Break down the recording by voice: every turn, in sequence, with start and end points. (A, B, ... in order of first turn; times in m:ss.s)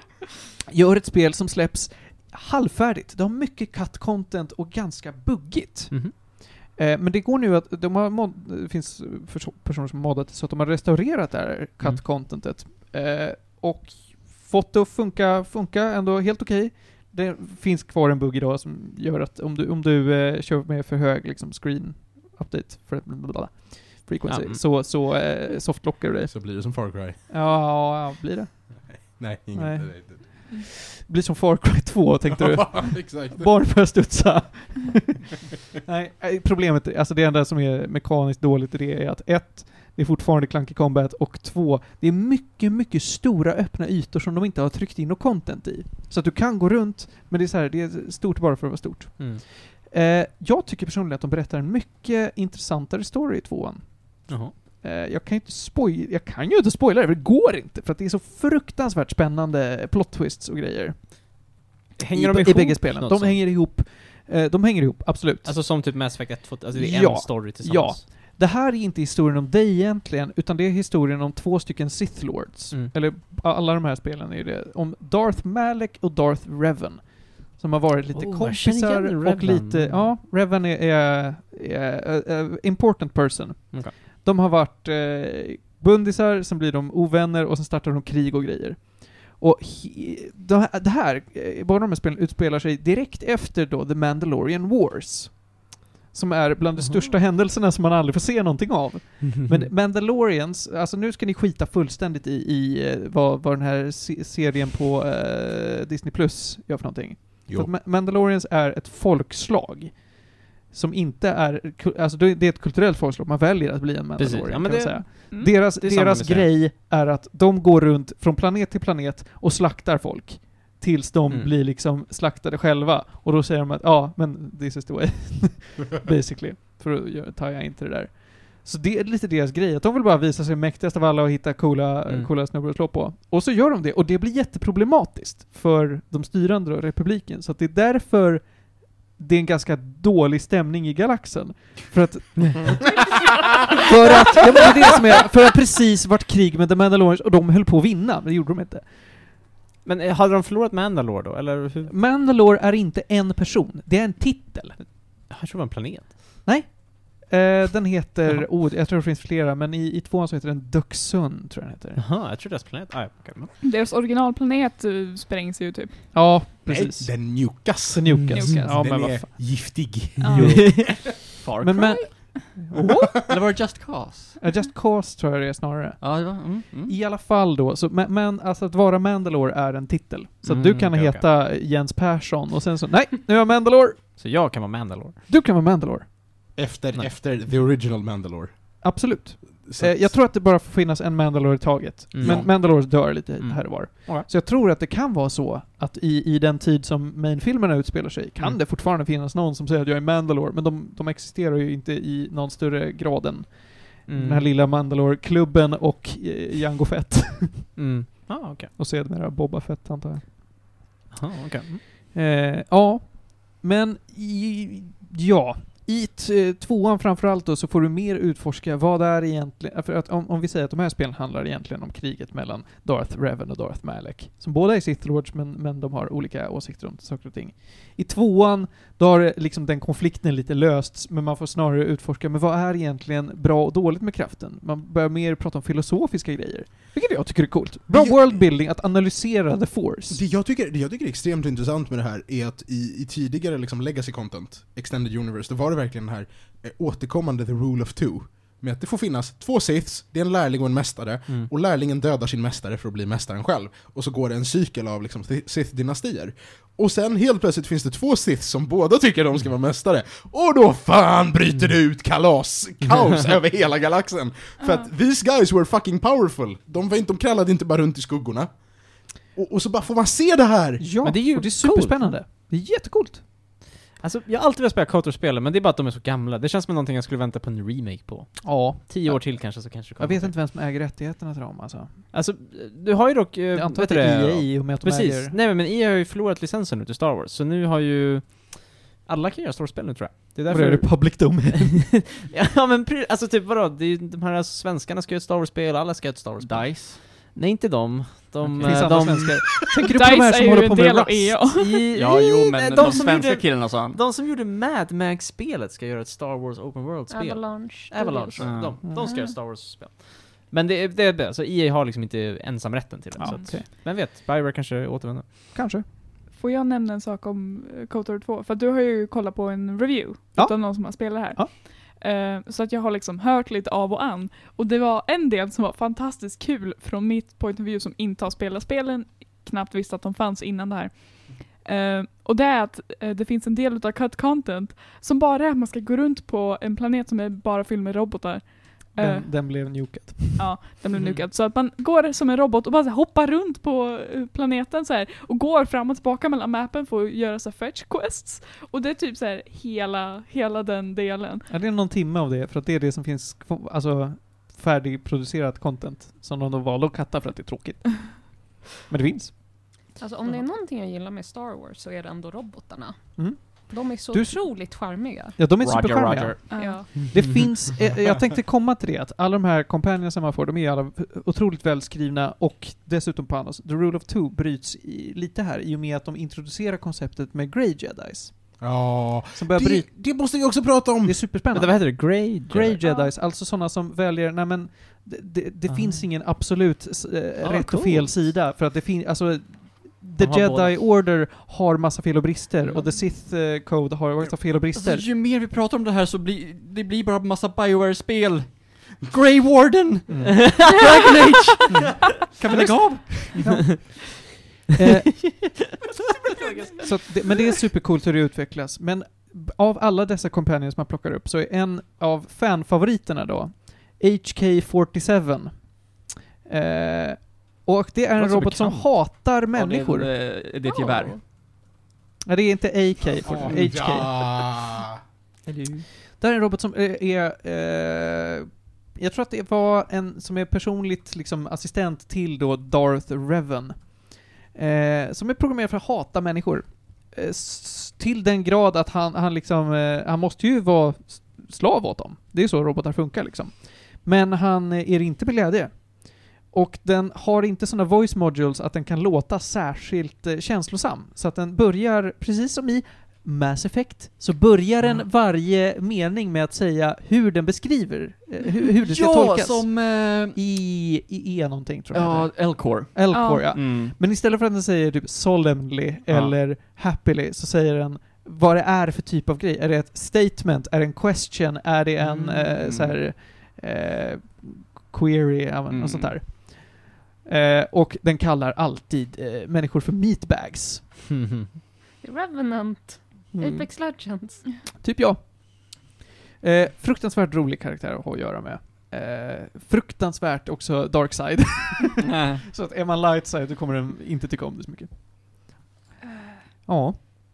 0:00.7-1:06.0 A
0:24.3-0:24.6 B
0:26.3-0:27.2 C
0:28.8-0:30.2 C
0:32.3-0:33.6 C
0:49.2-0:49.4 B
0:54.3-0:54.5 B
1:02.0-1:03.5 B
1:05.4-1:08.0 B
1:06.7-2:23.1 A
1:18.1-1:20.1 B
1:36.8-1:37.1 B
1:39.4-1:39.7 B
1:54.2-1:56.6 B
1:55.3-1:55.6 D
2:01.3-2:01.5 B
2:23.7-2:28.9 A
2:29.8-2:31.9 B
2:31.8-2:34.8 A
2:34.8-2:36.3 B
2:36.4-2:42.0 A
2:42.0-2:43.5 B
2:43.6-2:46.1 D
2:46.1-2:53.3 A
2:46.6-2:50.8 C
2:48.1-2:48.7 B
2:48.3-2:48.7 D
2:50.2-2:50.6 D
2:50.6-2:50.9 B
2:51.4-2:52.2 E
2:53.3-2:54.4 E
2:54.4-3:04.2 A
2:56.0-2:57.0 E
3:00.4-3:01.2 B
3:04.2-3:05.2 B
3:05.3-3:06.1 A
3:06.5-3:09.0 C
3:08.8-3:30.3 A
3:09.6-3:10.2 C
3:12.1-3:14.3 B
3:12.2-3:12.5 C
3:24.1-3:24.5 B
3:27.8-3:28.7 B
3:31.1-3:31.8 B
3:32.1-4:00.2 A
3:57.9-3:58.4 C
4:00.1-4:30.8 C
4:24.6-4:24.9 D
4:30.8-4:33.2 A
4:31.0-4:32.2 B
4:34.0-4:40.4 B
4:38.4-4:42.1 A
4:42.1-4:59.4 B
4:43.5-4:45.4 A
4:50.5-4:51.9 A
4:56.4-4:57.0 E
4:58.4-5:01.4 A
4:58.5-4:59.3 E
4:59.8-5:01.8 D
5:01.6-5:15.6 B
5:01.9-5:04.0 E
5:07.1-5:09.4 F
5:08.4-5:08.8 E
5:08.8-5:09.1 A
5:13.2-5:13.6 A
5:13.3-5:13.5 D
5:15.5-5:15.8 A
5:16.3-5:39.3 D
5:20.4-5:21.5 A
5:39.0-5:40.5 A
5:40.4-5:51.4 D
5:51.5-5:59.4 A
6:00.0-6:05.4 F
6:03.2-6:04.4 A
6:05.3-6:18.6 A
6:05.6-6:06.8 E
6:06.5-6:06.8 D
6:06.6-6:06.9 F
6:07.1-6:07.5 B
6:18.6-6:21.3 C
6:19.3-6:35.1 A
6:21.5-6:22.8 B
6:22.8-6:23.1 D
6:25.7-6:26.0 B
6:27.4-6:28.1 E
6:30.2-6:30.8 B
6:34.7-6:41.9 E
6:40.1-6:40.4 A
6:40.1-6:41.8 B
6:41.7-6:44.1 A
6:44.7-6:45.7 A
6:45.2-6:45.8 B
6:46.3-6:46.9 B
6:46.8-6:55.9 A
6:56.4-7:00.1 A
6:58.2-6:58.8 E
6:58.2-6:58.8 B
6:59.5-7:01.2 E
7:00.7-7:00.9 F
7:02.2-7:04.2 A
7:03.2-7:05.0 C
7:05.4-7:05.8 E
7:06.2-8:00.8 A
7:38.7-7:40.4 E
7:41.9-7:44.0 E
7:43.1-7:43.5 D
7:46.1-7:46.4 E
7:52.0-7:53.0 E
7:55.7-7:56.2 E
8:01.1-8:01.5 B
8:02.0-8:04.4 F
8:03.3-8:03.7 A
8:04.8-8:05.9 A
8:06.4-8:14.9 A
8:12.0-8:12.4 E
8:16.6-8:17.0 A